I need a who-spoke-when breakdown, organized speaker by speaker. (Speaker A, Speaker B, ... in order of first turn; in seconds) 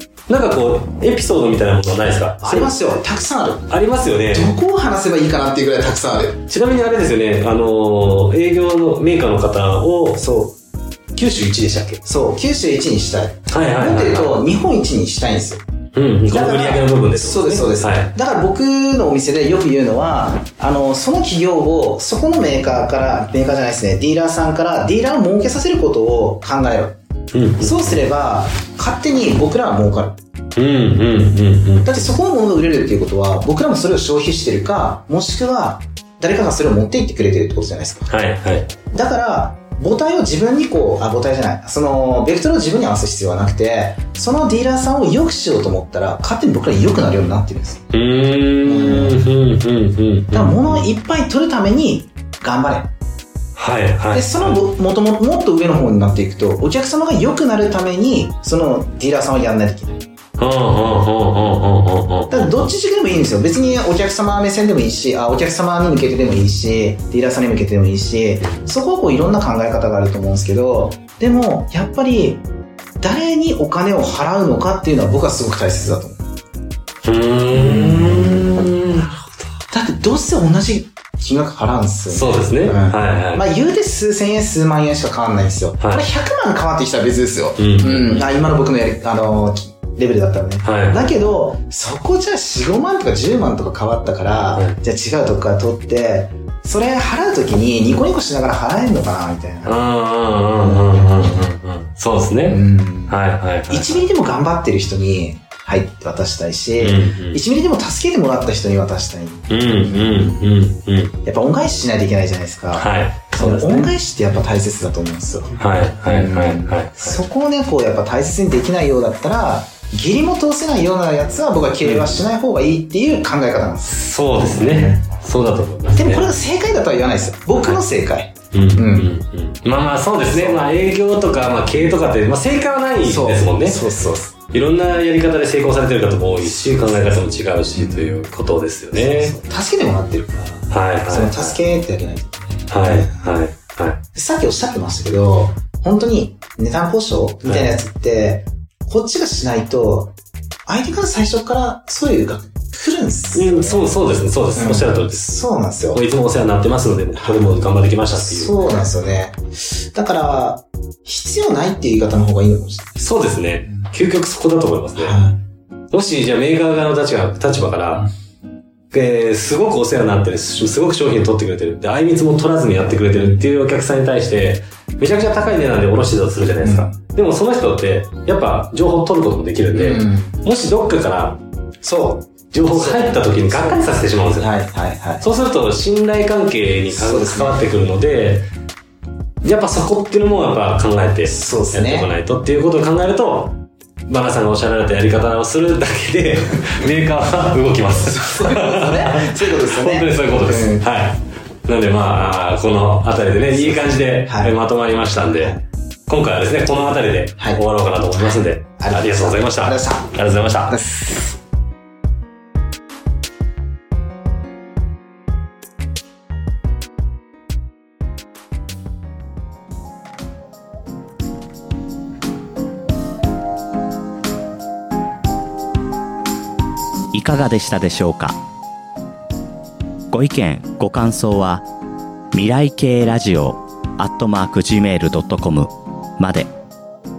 Speaker A: 0.3-2.7, 3.7-4.5, 6.5-10.2, 11.1-12.0, 13.5-14.4, 15.9-18.1, 27.3-28.0, 30.6-32.0, 38.1-38.7, 47.9-50.9, 53.5-54.6, 60.4-62.7, 68.4-68.7, 77.0-79.5, 82.1-83.5, 85.8-86.0, 87.6-88.3, 90.6-91.1, 99.6-104.0, 106.8-107.4, 109.5-111.2, 112.7-113.9, 115.6-117.2, 121.8-122.2, 123.8-126.3, 127.5-127.8, 128.5-133.8, 134.5-139.4, 140.7-141.6, 142.7-144.0, 147.4-147.7, 153.3-155.3, 155.9-158.7, 163.0-165.2, 165.9-168.1, 168.9-181.4, 182.5-184.5, 185.2-188.5, 189.4-193.6, 194.1-210.8
Speaker B: 2.4-3.6, 4.3-6.4, 10.2-10.5, 12.0-15.6, 16.3-26.9, 27.6-30.1, 31.9-38.1, 38.9-47.8, 48.6-49.2, 50.3-52.9, 54.1-60.0, 62.3-72.4, 73.0-76.2, 77.5-78.5, 79.7-99.8, 100.6-101.5, 102.5-103.1, 103.7-110.4, 111.2-115.5, 116.1-125.0, 126.0-129.1, 130.3-130.7, 133.1-134.3, 136.5-137.1, 137.8-138.2, 138.9-143.2, 144.1-150.1, 150.7-154.0, 154.6-156.0, 157.1-162.9, 165.0-165.4, 176.6-176.9, 179.7-180.4, 181.8-185.2, 186.9-187.6, 191.3-192.1, 198.0-200.8, 203.5-204.5, 208.8-210.1, 210.7-211.3
Speaker C: 227.1-228.4, 230.1-231.7, 232.3-236.5